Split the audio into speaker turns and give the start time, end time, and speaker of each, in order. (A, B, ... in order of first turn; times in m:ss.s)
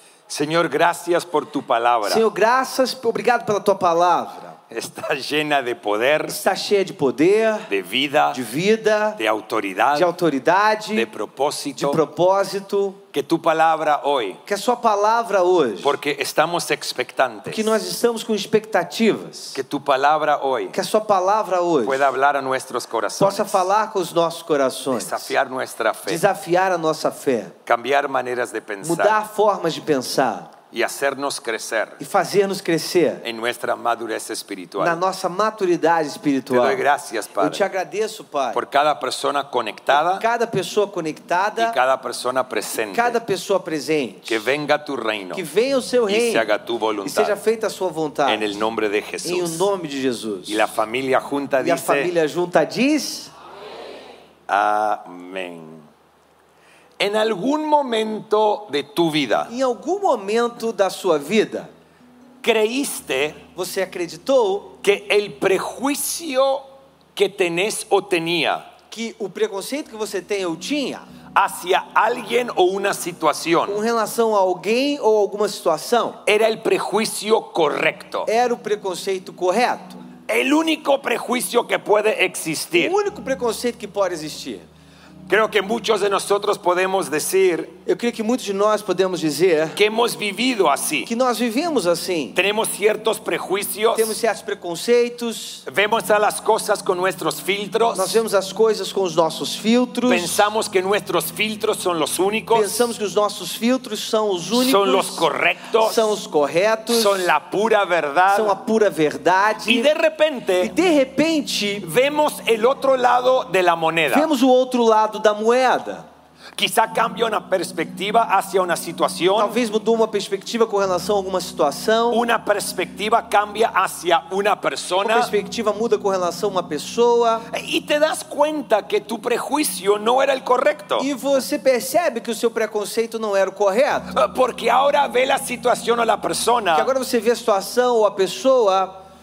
0:00.3-0:02.2 A
0:02.0-0:04.6 B
0:04.7-0:06.4 A
0:06.2-0:07.7 B
0:07.7-0:08.4 A
0:08.3-0:09.2 B
0:09.2-0:10.1 A
0:09.9-0:11.1 B
0:10.9-0:12.0 A
0:11.8-0:13.0 B
0:13.1-0:14.4 A
0:14.4-0:16.0 B
0:15.8-0:17.8 A
0:17.5-0:19.6 B
0:19.5-0:20.8 A
0:20.7-0:22.1 B
0:21.8-0:23.7 A
0:23.2-0:25.3 B
0:24.9-0:26.2 A
0:26.0-0:27.5 B
0:27.6-0:29.2 A
0:28.8-0:30.5 B
0:30.7-0:32.0 A
0:32.0-0:33.2 B
0:33.2-0:35.0 A
0:34.8-0:36.8 B
0:36.5-0:37.6 A
0:37.4-0:38.6 B
0:38.5-0:40.2 A
0:39.9-0:41.8 B
0:41.6-0:43.2 A
0:42.9-0:44.5 B
0:44.3-0:45.4 A
0:45.3-0:46.5 B
0:46.1-0:47.4 A
0:47.0-0:48.6 B
0:48.2-0:49.7 A
0:49.2-0:50.7 B
0:50.5-0:52.1 A
0:51.6-0:53.3 B
0:54.5-0:55.8 A
0:57.0-0:59.5 A
0:59.5-1:01.7 B
1:02.4-1:03.4 A
1:03.5-1:04.8 B
1:04.8-1:08.7 A
1:08.9-1:11.0 B
1:11.3-1:13.8 A
1:13.7-1:16.2 B
1:16.2-1:18.3 A
1:18.2-1:20.0 B
1:20.3-1:22.9 A
1:22.7-1:24.6 B
1:25.3-1:27.7 A
1:27.8-1:29.8 B
1:29.8-1:31.1 A
1:31.0-1:32.4 B
1:32.3-1:34.2 A
1:33.9-1:35.6 B
1:35.6-1:38.2 A
1:37.9-1:40.5 B
1:40.1-1:42.9 A
1:42.5-1:45.3 B
1:44.5-1:46.1 A
1:45.8-1:47.3 B
1:46.9-1:48.6 A
1:48.3-1:49.9 B
1:49.6-1:50.7 A
1:50.6-1:51.9 B
1:51.8-1:54.3 A
1:54.1-1:56.0 B
1:56.5-1:59.6 A
1:59.4-2:02.2 B
2:02.1-2:05.3 A
2:05.0-2:07.5 B
2:07.5-2:11.1 A
2:11.0-2:14.1 B
2:14.1-2:16.9 A
2:16.7-2:19.0 B